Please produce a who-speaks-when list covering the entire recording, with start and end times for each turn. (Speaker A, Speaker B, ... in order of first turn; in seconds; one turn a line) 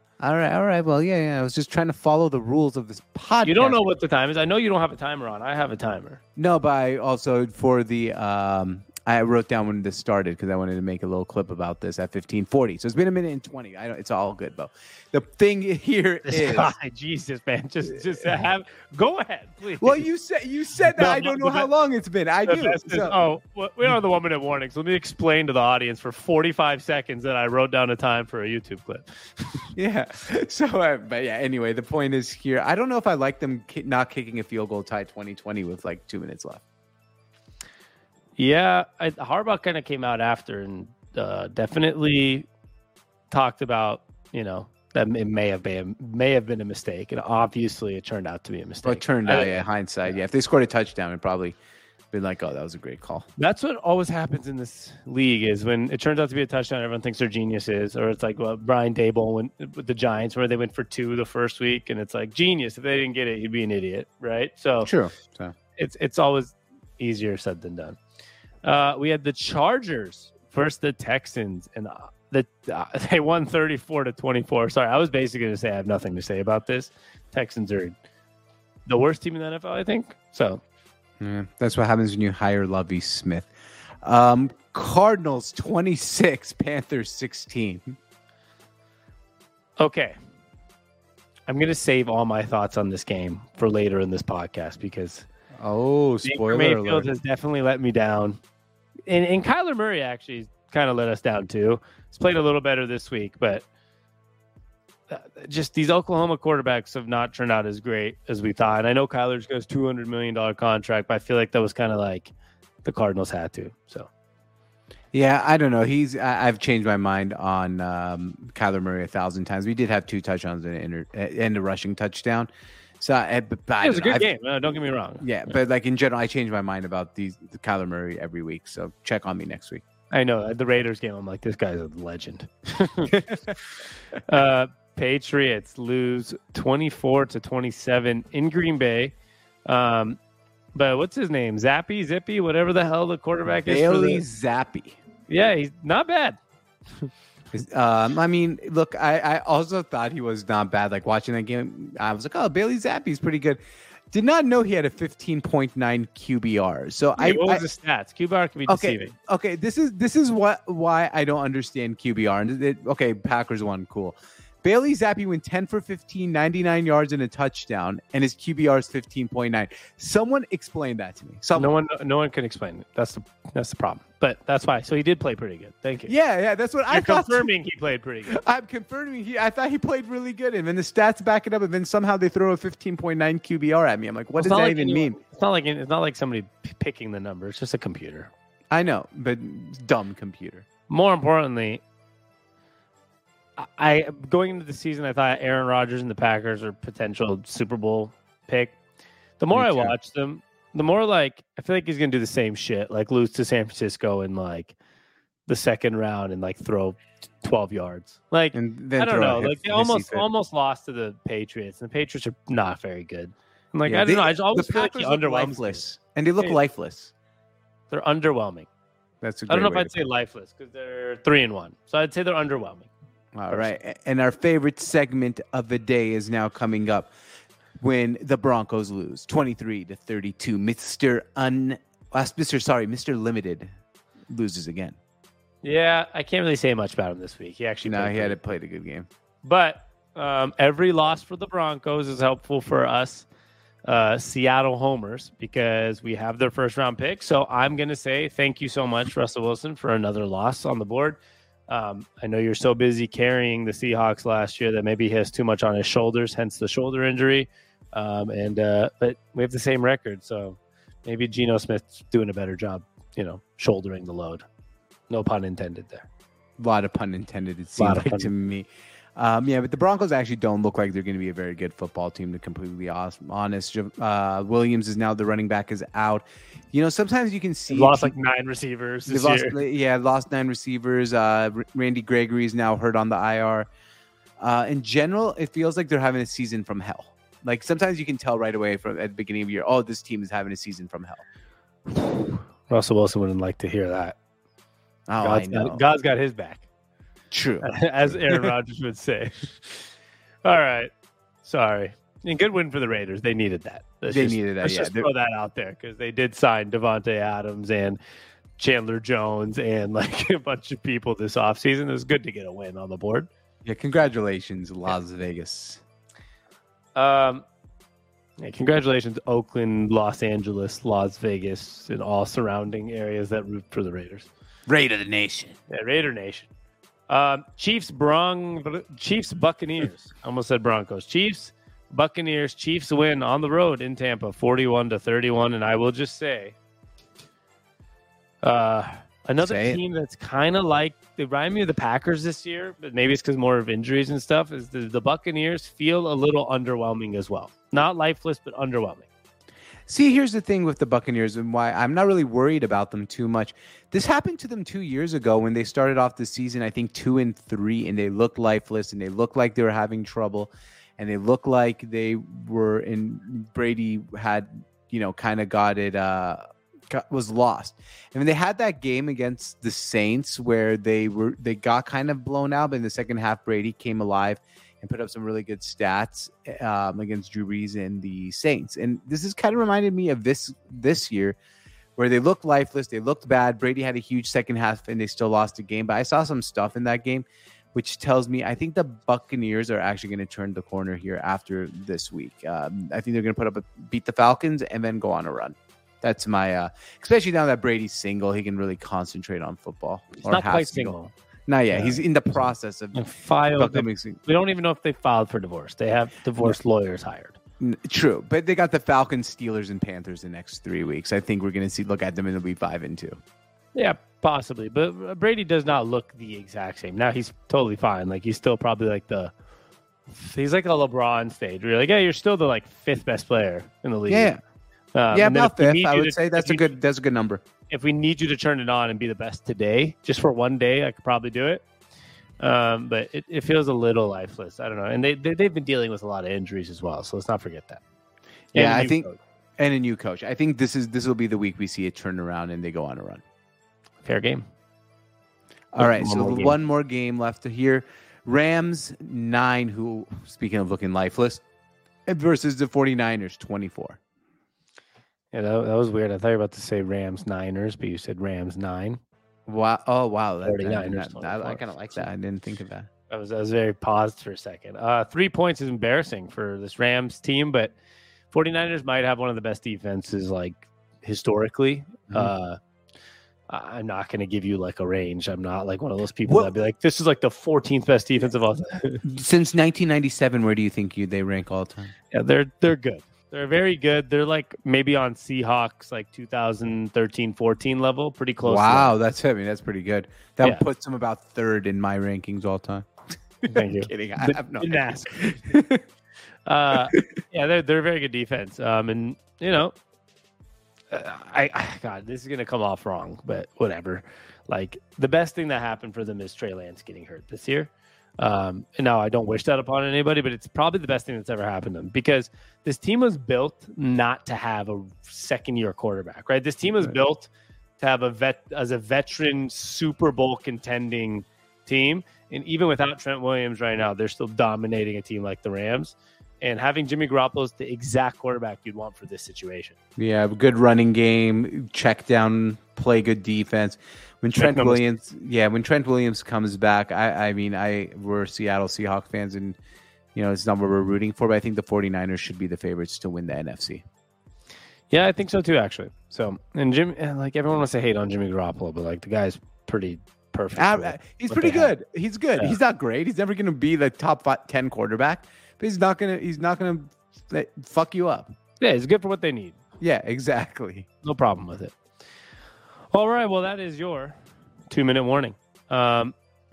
Speaker A: 0.2-3.8
Speaker B: 3.4-6.2
Speaker A: 6.3-16.7
Speaker B: 16.3-20.0
Speaker A: 19.8-23.2
Speaker B: 20.9-21.7
Speaker B: 22.4-29.7
Speaker A: 29.7-36.6
Speaker B: 38.4-42.5
Speaker B: 43.3-49.6
Speaker A: 48.8-51.6
Speaker A: 52.1-53.3
Speaker B: 53.4-64.9
Speaker A: 64.8-65.5
Speaker B: 65.8-68.0
Speaker B: 68.6-78.0
Speaker B: 78.8-80.6
Speaker A: 81.2-83.5
Speaker A: 84.0-88.0
Speaker B: 89.8-90.1
Speaker B: 91.5-95.2
Speaker A: 95.6-97.1
Speaker B: 96.2-98.4
Speaker B: 99.1-103.7
Speaker B: 105.1-112.3
Speaker B: 112.8-114.1
Speaker A: 115.1-122.5
Speaker A: 123.0-124.3
Speaker B: 123.8-125.3
Speaker A: 125.2-129.8
Speaker B: 130.1-133.2
Speaker A: 133.1-133.5
Speaker B: 134.2-139.1
Speaker B: 139.7-140.2
Speaker B: 140.7-144.2
Speaker A: 143.7-145.0
Speaker B: 145.3-146.4
Speaker A: 147.5-153.6
Speaker A: 154.1-157.6
Speaker B: 157.2-159.1
Speaker A: 158.7-171.7
Speaker B: 171.5-176.1
Speaker A: 176.1-177.5
Speaker B: 176.9-178.4
Speaker A: 178.3-185.2
Speaker B: 184.3-188.3
Speaker A: 188.7-190.7
Speaker B: 190.9-191.8
Speaker B: 193.6-198.8
Speaker B: 199.4-204.7
Speaker A: 199.5-199.9
Speaker B: 205.5-215.8
Speaker A: 208.5-210.3
Speaker A: 213.8-217.1
Speaker B: 217.9-218.7
Speaker A: 219.2-219.9
Speaker B: 219.5-222.9
Speaker A: 223.3-227.1
Speaker A: 227.8-233.7
Speaker A: 234.3-235.0
Speaker B: 235.6-238.4
Speaker A: 237.8-239.1
Speaker B: 239.4-243.3
Speaker B: 243.9-264.4
Speaker B: 265.1-266.1
Speaker A: 266.6-278.1
Speaker B: 267.8-268.3
Speaker B: 277.7-279.6
Speaker A: 279.1-283.7
Speaker A: 284.4-291.2
Speaker B: 291.9-294.1
Speaker A: 295.1-295.8
Speaker B: 295.2-296.7
Speaker A: 297.3-298.5
Speaker B: 297.6-299.9
Speaker B: 300.4-300.9
Speaker B: 301.4-308.0
Speaker A: 304.1-305.1
Speaker B: 308.6-313.3
Speaker A: 313.6-315.8
Speaker B: 316.9-317.4
Speaker B: 318.4-324.3
Speaker A: 324.7-325.6
Speaker B: 325.7-326.5
Speaker B: 327.1-336.5
Speaker B: 338.4-349.1
Speaker A: 339.4-339.8
Speaker A: 349.9-381.4
Speaker A: 382.0-400.9
Speaker B: 400.2-401.1
Speaker A: 401.5-403.0
Speaker B: 401.7-402.0
Speaker B: 402.9-407.4
Speaker A: 403.6-404.2
Speaker A: 407.6-413.2
Speaker B: 413.7-419.3
Speaker B: 420.1-424.4
Speaker A: 424.1-424.4
Speaker B: 424.9-426.7
Speaker A: 425.1-427.4
Speaker B: 427.7-431.6
Speaker B: 432.4-437.8
Speaker A: 438.5-439.1
Speaker B: 438.5-439.2
Speaker A: 439.6-443.2
Speaker B: 444.0-444.4
Speaker A: 445.7-451.4
Speaker B: 445.8-446.6
Speaker A: 452.1-454.0
Speaker B: 455.3-459.0
Speaker A: 459.5-462.9
Speaker B: 460.4-462.0
Speaker B: 463.1-467.7
Speaker B: 468.3-472.6
Speaker B: 473.5-479.0
Speaker A: 476.2-476.5
Speaker A: 479.0-481.9
Speaker B: 482.1-488.9
Speaker A: 488.4-492.9
Speaker A: 493.4-495.8
Speaker B: 493.5-495.2
Speaker B: 496.4-499.7
Speaker B: 500.9-529.8
Speaker A: 530.0-539.6
Speaker B: 534.4-534.8
Speaker A: 540.1-543.8
Speaker B: 544.9-551.7
Speaker A: 550.5-558.3
Speaker B: 558.6-559.6
Speaker A: 559.8-560.9
Speaker B: 561.0-561.8
Speaker B: 562.9-564.2
Speaker B: 564.7-566.1